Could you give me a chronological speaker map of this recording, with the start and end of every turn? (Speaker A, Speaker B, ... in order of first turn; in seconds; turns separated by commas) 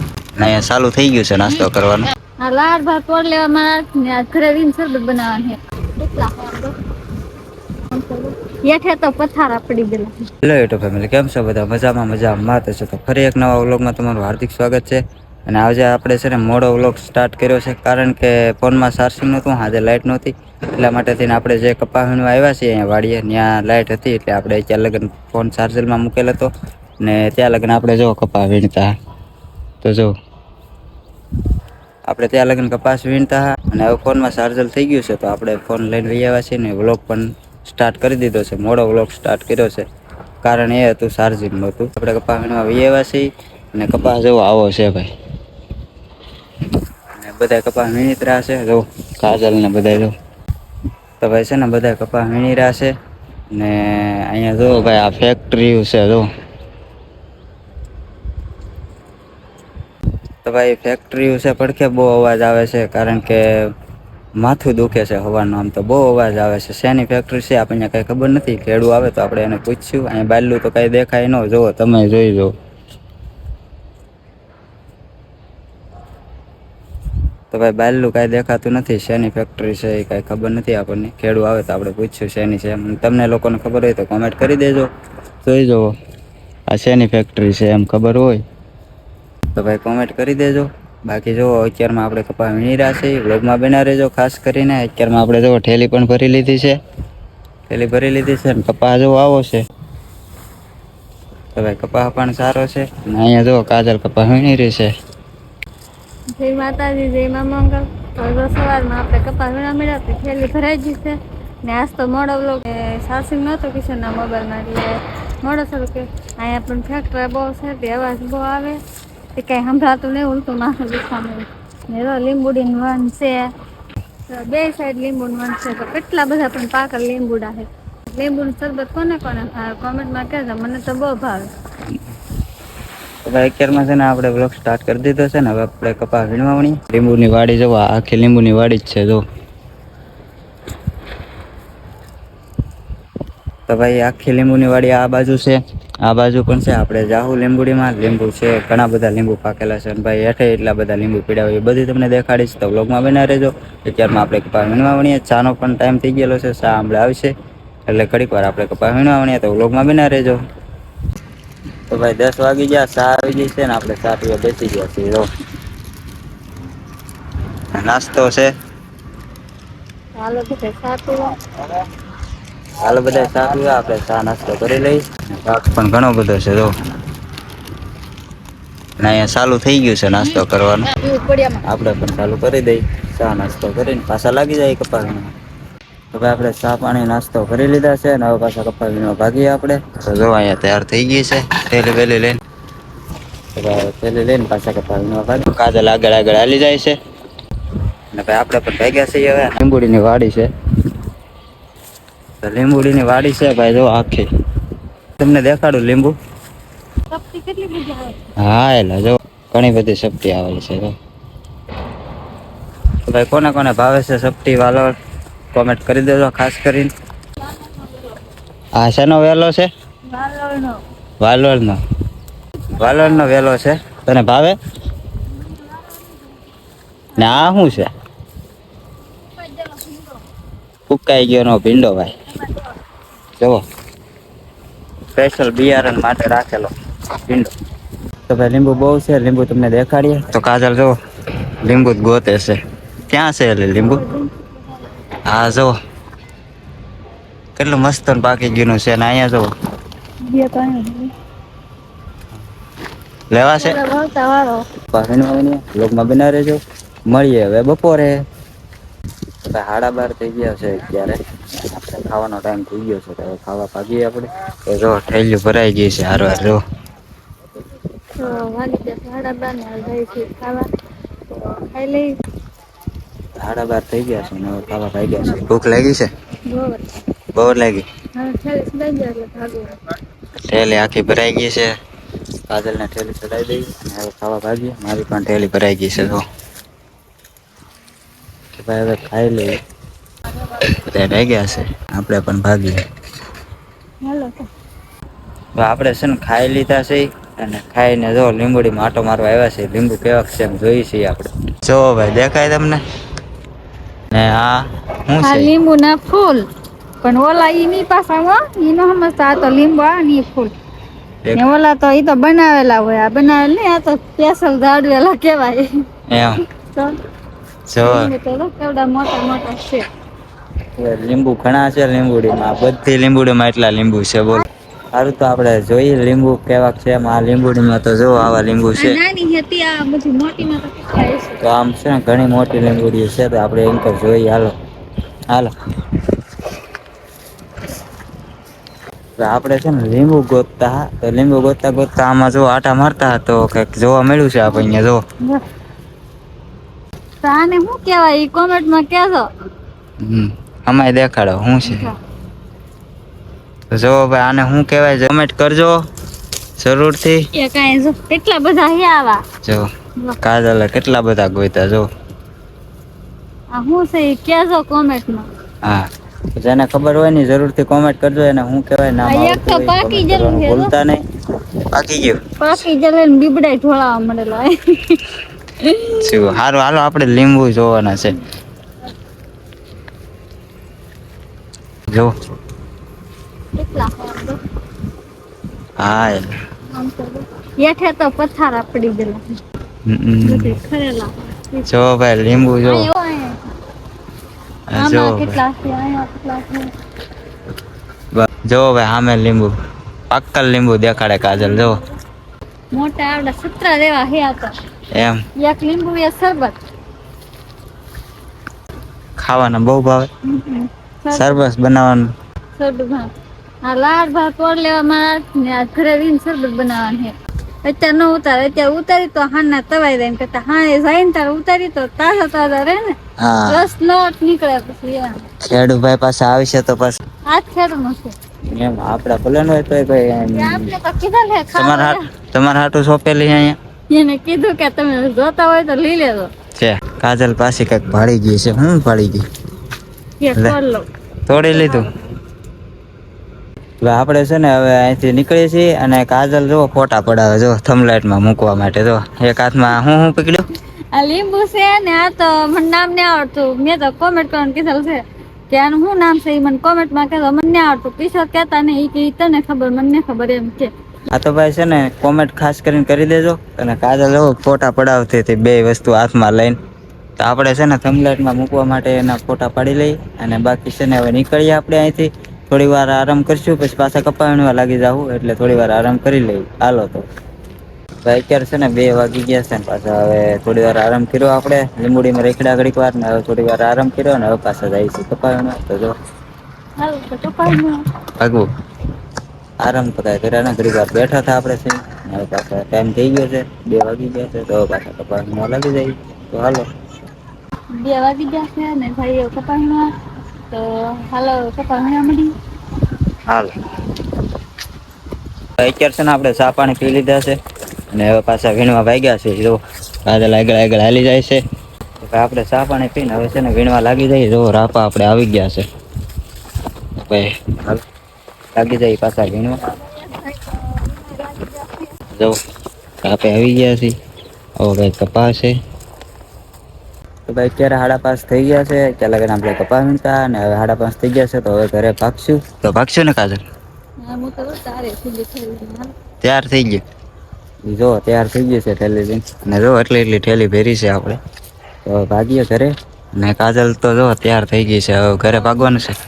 Speaker A: 0.4-2.1, Speaker B: 2.4-6.8, Speaker B: 7.9-10.2, Speaker A: 10.4-26.5, Speaker A: 27.0-28.9, Speaker A: 29.8-30.1, Speaker A: 32.1-39.8, Speaker A: 40.4-45.1, Speaker A: 47.2-50.1, Speaker A: 51.2-52.9, Speaker A: 53.5-56.2, Speaker A: 60.4-63.4, Speaker A: 64.4-72.5, Speaker A: 77.5-84.9, Speaker A: 85.4-85.9, Speaker A: 86.7-88.4, Speaker A: 89.5-96.8, Speaker A: 97.7-99.6, Speaker A: 101.5-104.9, Speaker B: 106.3-118.8, Speaker B: 119.3-123.5, Speaker B: 124.3-131.5, Speaker A: 133.2-139.2, Speaker A: 143.7-157.3, Speaker A: 157.8-160.4, Speaker A: 161.9-165.3, Speaker A: 167.7-168.5, Speaker B: 170.2-171.3, Speaker A: 172.8-176.7, Speaker A: 179.0-181.0, Speaker B: 181.0-181.6, Speaker A: 181.6-185.3, Speaker A: 186.1-192.4, Speaker A: 193.5-197.0, Speaker A: 198.1-200.5, Speaker A: 202.4-204.2, Speaker A: 205.2-206.1, Speaker B: 207.1-208.2, Speaker A: 208.4-210.9, Speaker A: 213.0-214.9, Speaker A: 215.5-216.9, Speaker B: 217.5-218.2, Speaker A: 218.7-219.7, Speaker B: 220.1-220.8, Speaker A: 221.2-221.8, Speaker A: 222.8-224.6, Speaker B: 222.8-223.2, Speaker B: 225.3-226.3, Speaker A: 227.2-227.9, Speaker B: 227.2-227.7, Speaker B: 229.2-230.2, Speaker A: 230.9-232.1, Speaker A: 235.1-237.5, Speaker A: 238.3-240.9, Speaker A: 241.6-244.0, Speaker B: 243.8-244.5, Speaker A: 245.2-245.7, Speaker A: 247.6-249.5, Speaker B: 250.3-251.1, Speaker A: 253.3-253.8, Speaker B: 253.6-254.7, Speaker A: 254.9-258.2, Speaker A: 259.4-266.6, Speaker B: 268.1-270.7, Speaker B: 271.3-272.1, Speaker A: 273.4-276.1, Speaker B: 276.5-276.8, Speaker A: 277.3-277.8, Speaker B: 278.2-279.7, Speaker A: 280.5-281.7, Speaker A: 282.5-286.2, Speaker A: 288.6-289.6, Speaker A: 290.6-292.8, Speaker B: 294.0-294.5, Speaker A: 295.6-302.8, Speaker A: 304.1-305.5, Speaker B: 305.2-306.4, Speaker B: 307.0-310.5, Speaker B: 311.3-315.7, Speaker A: 316.1-316.4, Speaker A: 317.7-318.1, Speaker B: 317.8-319.8, Speaker A: 320.8-329.0, Speaker B: 328.8-331.4, Speaker A: 331.4-334.5, Speaker A: 335.3-336.0, Speaker A: 339.2-345.0, Speaker B: 347.2-349.3, Speaker A: 350.0-351.9, Speaker B: 351.6-351.9, Speaker A: 353.7-355.8, Speaker A: 356.6-357.2, Speaker B: 357.3-359.2, Speaker A: 359.4-359.7, Speaker A: 360.2-361.9, Speaker B: 363.5-365.3, Speaker A: 365.6-371.0, Speaker B: 369.0-370.7, Speaker A: 371.6-372.2, Speaker B: 372.4-376.2, Speaker A: 376.0-378.2, Speaker B: 383.6-384.4, Speaker A: 385.8-386.3, Speaker B: 386.7-389.4, Speaker A: 389.9-390.6, Speaker B: 390.2-391.7, Speaker A: 391.6-392.9, Speaker B: 392.6-393.4, Speaker A: 394.7-395.4, Speaker B: 394.8-396.7, Speaker A: 398.1-399.5, Speaker A: 400.1-401.8, Speaker B: 401.4-401.9, Speaker B: 402.7-404.5, Speaker B: 405.4-406.6, Speaker A: 409.2-410.1, Speaker B: 410.2-411.4, Speaker A: 411.1-412.1, Speaker B: 412.6-413.1, Speaker B: 413.6-425.2, Speaker A: 423.2-423.7, Speaker A: 425.4-427.0, Speaker B: 427.3-428.1, Speaker A: 428.5-430.7, Speaker B: 430.3-432.1, Speaker A: 431.5-433.6, Speaker B: 433.9-436.3, Speaker A: 436.6-439.2, Speaker B: 440.2-440.9, Speaker A: 441.2-441.9, Speaker B: 441.4-442.1, Speaker A: 443.8-450.4, Speaker B: 450.9-460.7, Speaker A: 461.1-466.6, Speaker A: 467.2-477.0, Speaker A: 478.0-485.9, Speaker B: 486.8-487.8, Speaker A: 488.2-488.4, Speaker A: 489.6-496.7, Speaker B: 497.7-499.9, Speaker B: 500.5-502.3, Speaker A: 503.2-503.5, Speaker A: 505.6-507.4, Speaker A: 507.9-511.4, Speaker A: 512.0-515.6, Speaker A: 517.0-517.8, Speaker A: 518.5-519.6, Speaker B: 519.6-521.9, Speaker A: 523.0-523.9, Speaker A: 524.6-525.5, Speaker A: 527.3-533.4, Speaker B: 534.0-535.9, Speaker A: 536.2-536.8, Speaker A: 537.6-541.2, Speaker A: 541.8-545.9